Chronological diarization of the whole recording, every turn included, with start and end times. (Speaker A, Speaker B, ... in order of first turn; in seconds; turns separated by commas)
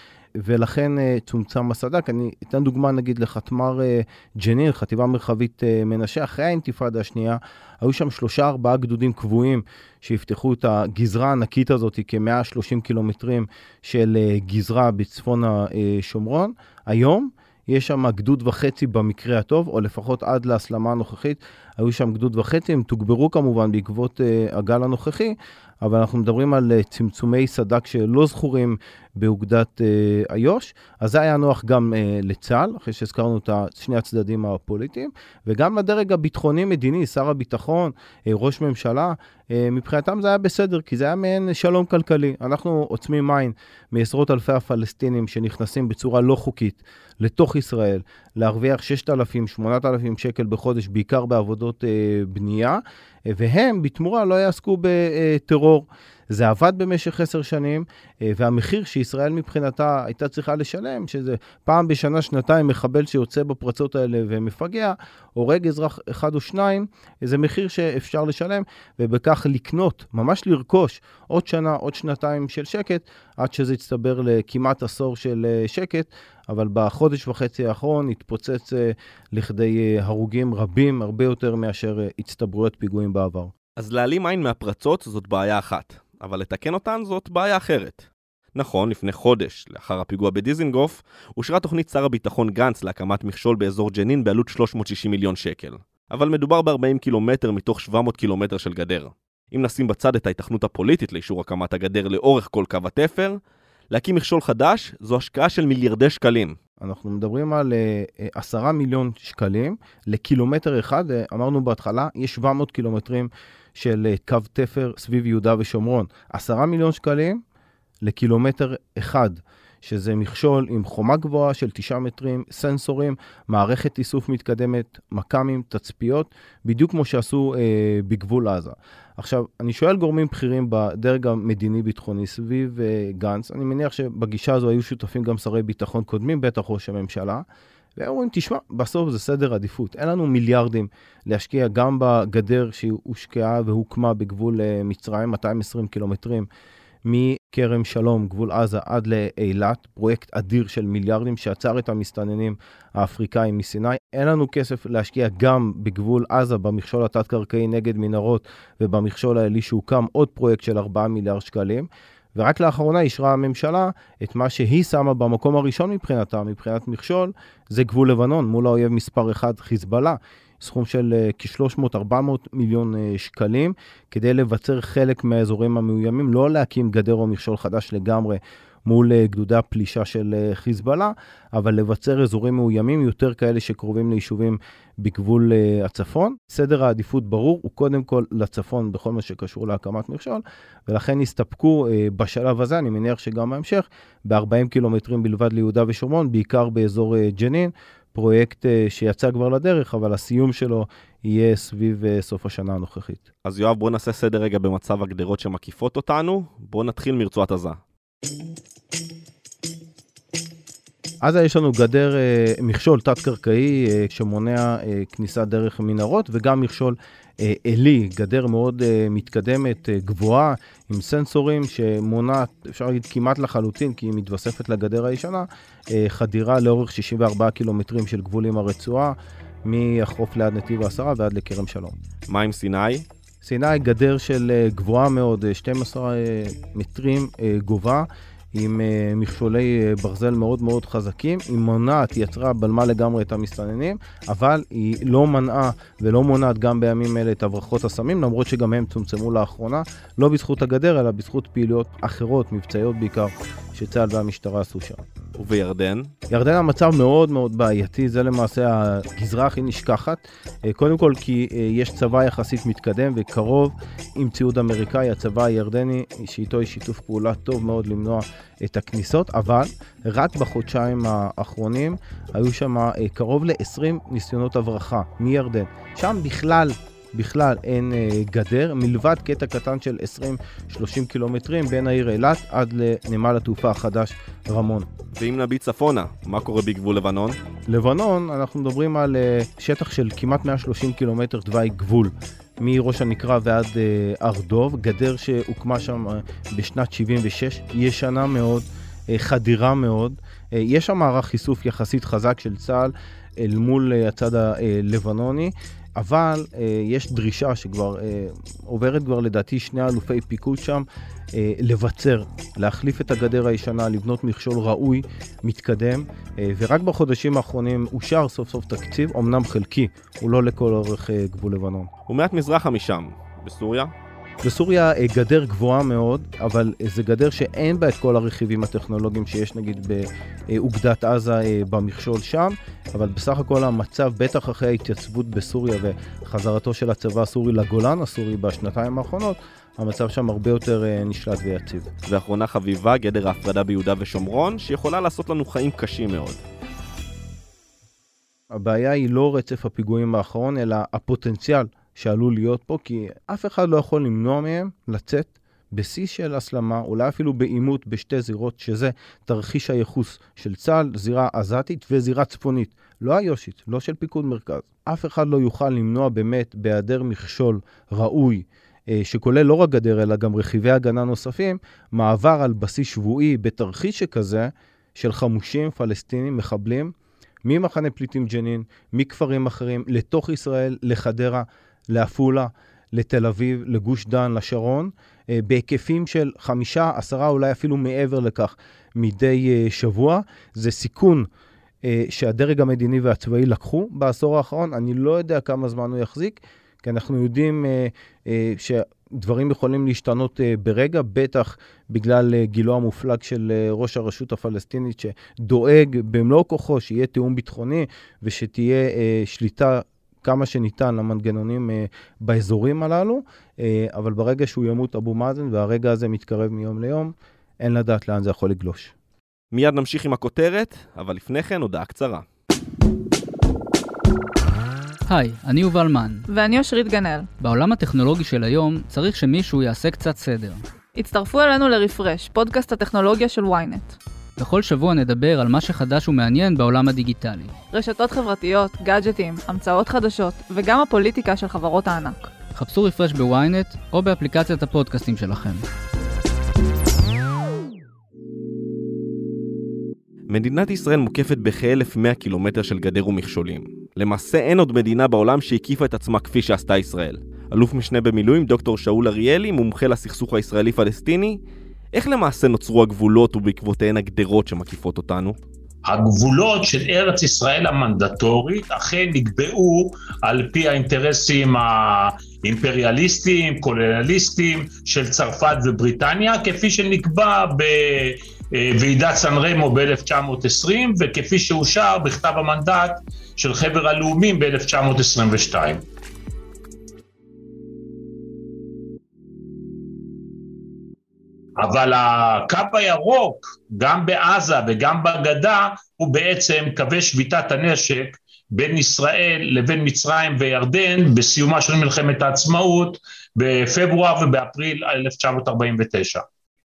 Speaker A: 0.4-83.5, Speaker B: 83.8-103.4, Speaker B: 103.9-106.6, Speaker A: 106.8-117.4, Speaker A: 118.0-137.4, Speaker A: 138.0-146.5, Speaker A: 147.0-203.2, Speaker B: 203.4-207.8, Speaker A: 211.2-231.9, Speaker B: 232.3-233.0, Speaker A: 233.4-255.0, Speaker B: 255.3-256.1, Speaker A: 256.3-284.9, Speaker B: 285.1-287.4, Speaker A: 287.7-321.9, Speaker B: 322.1-323.9, Speaker A: 324.4-341.9, Speaker B: 342.1-346.4, Speaker A: 348.5-376.9, Speaker A: 377.4-391.3, Speaker A: 391.8-418.9, Speaker B: 419.5-422.2, Speaker C: 425.1-426.2, Speaker D: 426.3-427.3, Speaker C: 427.4-430.6, Speaker D: 430.9-434.0, Speaker C: 434.4-437.5, Speaker D: 437.7-442.3, Speaker C: 442.5-445.6, Speaker B: 450.3-461.4, Speaker B: 461.9-465.4, Speaker E: 465.8-485.8, Speaker E: 491.6-506.2